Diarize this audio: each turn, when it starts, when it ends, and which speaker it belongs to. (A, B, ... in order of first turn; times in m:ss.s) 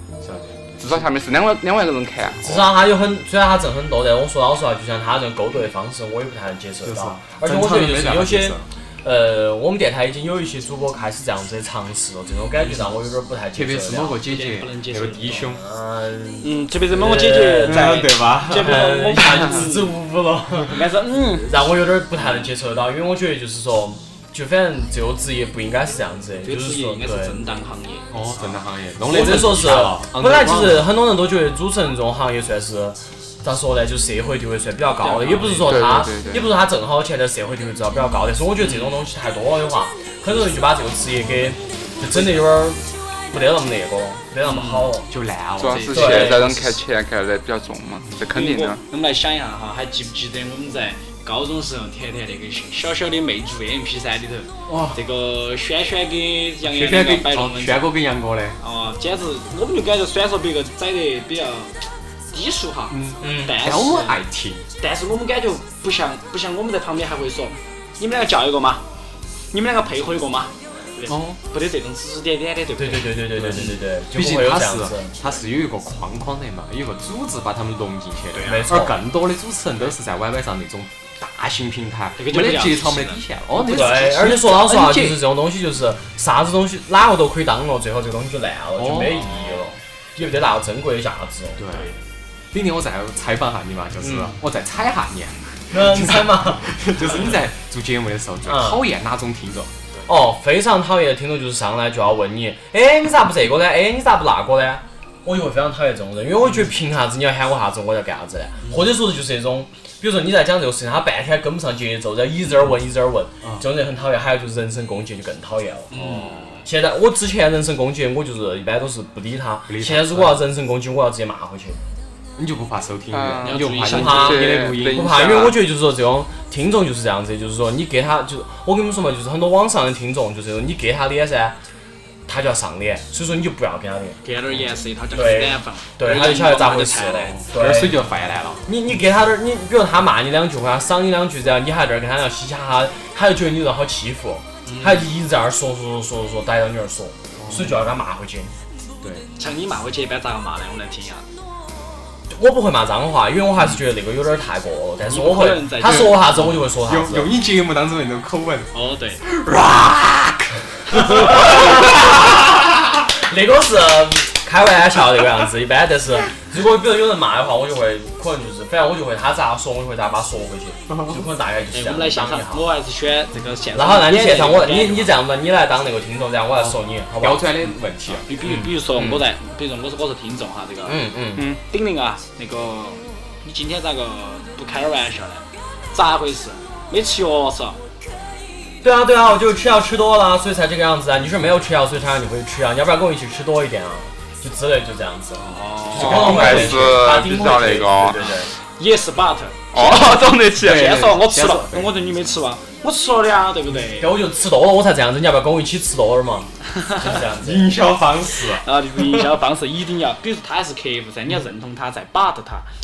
0:00.2-0:01.0 A
0:00.8-0:02.7 B
0:02.4-0:14.1 C
0:06.8-0:08.6 A
0:12.6-0:12.9 D
0:13.6-0:15.6 A
0:13.9-0:15.5 D
0:15.4-0:27.4 C
0:16.4-0:19.9 D
0:17.6-0:18.9 A
0:20.6-0:21.6 D
0:26.4-0:28.6 D
0:28.1-0:30.9 A
0:29.1-0:45.1 C
0:35.0-0:35.8 D
0:35.6-0:36.5 B
0:38.6-0:39.0 D
0:44.4-0:44.9 D
0:45.1-0:46.8 A
0:45.6-0:48.8 B
0:45.7-0:46.3 D
0:45.9-0:46.4 C
0:48.3-0:57.9 D
0:54.7-0:55.0 A
0:56.6-0:58.6 A
0:58.6-1:01.7 D
1:02.3-1:04.2 D
1:02.9-1:04.7 A
1:03.2-1:03.6 C
1:04.8-1:08.8 D
1:09.5-1:13.8 D
1:11.1-1:11.4 A
1:12.8-1:15.3 C
1:13.6-1:25.2 A
1:18.3-1:18.7 D
1:18.4-1:19.0 C
1:22.2-1:24.0 D
1:23.6-1:31.6 C
1:28.8-1:29.3 A
1:29.1-1:29.7 D
1:31.6-1:32.0 A
1:31.7-1:32.0 D
1:32.5-1:39.7 A
1:34.0-1:34.4 C
1:35.7-1:37.2 C
1:38.4-1:38.8 C
1:40.1-1:56.0 C
1:55.9-1:56.7 D
1:55.9-1:56.5 A
1:56.6-2:01.8 C
1:59.7-2:00.4 A
2:02.4-2:05.2 A
2:03.1-2:05.6 B
2:03.4-2:04.4 D
2:03.9-2:11.6 C
2:12.2-2:14.2 C
2:14.2-2:17.4 D
2:15.1-2:18.0 C
2:17.2-2:18.7 A
2:18.6-2:28.5 C
2:24.6-2:25.1 D
2:27.4-2:27.8 A
2:29.0-2:29.3 A
2:29.4-2:31.3 D
2:32.3-2:37.3 C
2:35.0-2:36.3 D
2:35.8-2:42.3 A
2:38.7-2:39.2 D
2:40.9-2:42.2 C
2:43.1-2:52.7 C
2:50.9-2:51.2 A
2:51.7-2:55.1 D
2:53.7-2:57.6 C
2:56.6-2:58.3 A
2:57.6-3:01.0 D
2:58.4-2:59.2 C
3:00.9-3:01.5 C
3:01.7-3:07.8 D
3:08.8-3:18.5 C
3:15.4-3:16.7 D
3:15.9-3:18.2 B
3:16.0-3:16.8 A
3:18.2-3:24.2 D
3:19.7-3:20.9 B
3:20.5-3:22.1 A
3:23.9-3:27.8 C
3:26.7-3:27.2 D
3:27.4-3:28.7 A
3:28.5-3:32.7 D